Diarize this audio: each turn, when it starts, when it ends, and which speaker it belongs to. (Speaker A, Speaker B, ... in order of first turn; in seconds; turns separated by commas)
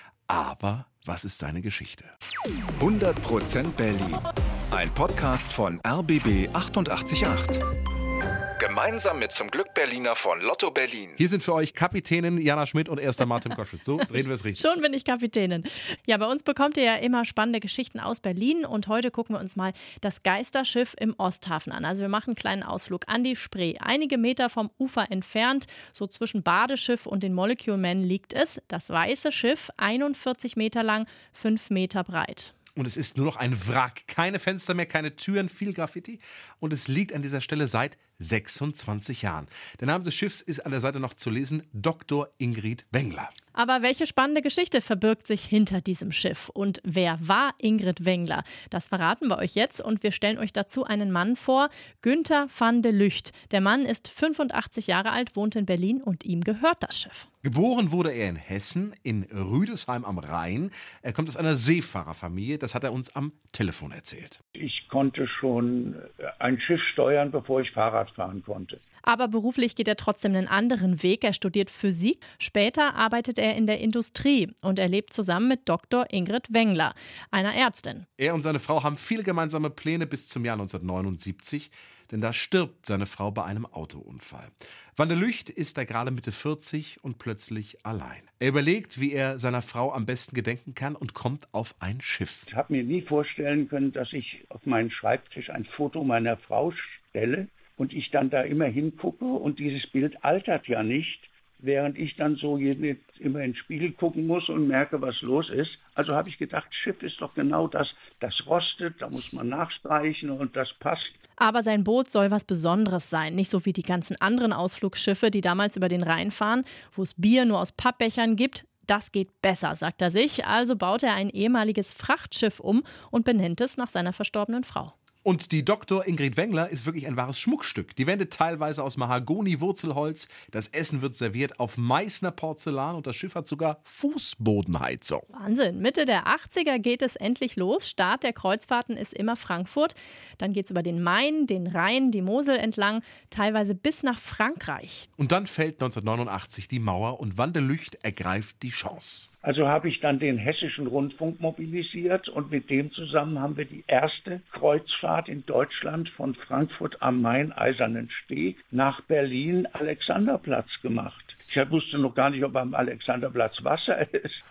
Speaker A: 0.3-2.1, Speaker B: 2.8-7.6, Speaker B: 8.6-11.2, Speaker A: 11.2-14.7, Speaker C: 14.2-32.5, Speaker A: 32.8-43.3, Speaker C: 43.5-57.3, Speaker A: 57.4-64.4, Speaker D: 64.6-68.8, Speaker C: 69.1-78.1, Speaker A: 78.2-92.5, Speaker D: 92.5-111.2, Speaker C: 111.4-124.9, Speaker A: 125.2-135.3, Speaker C: 135.3-145.1, Speaker A: 145.2-149.3, Speaker D: 149.4-164.4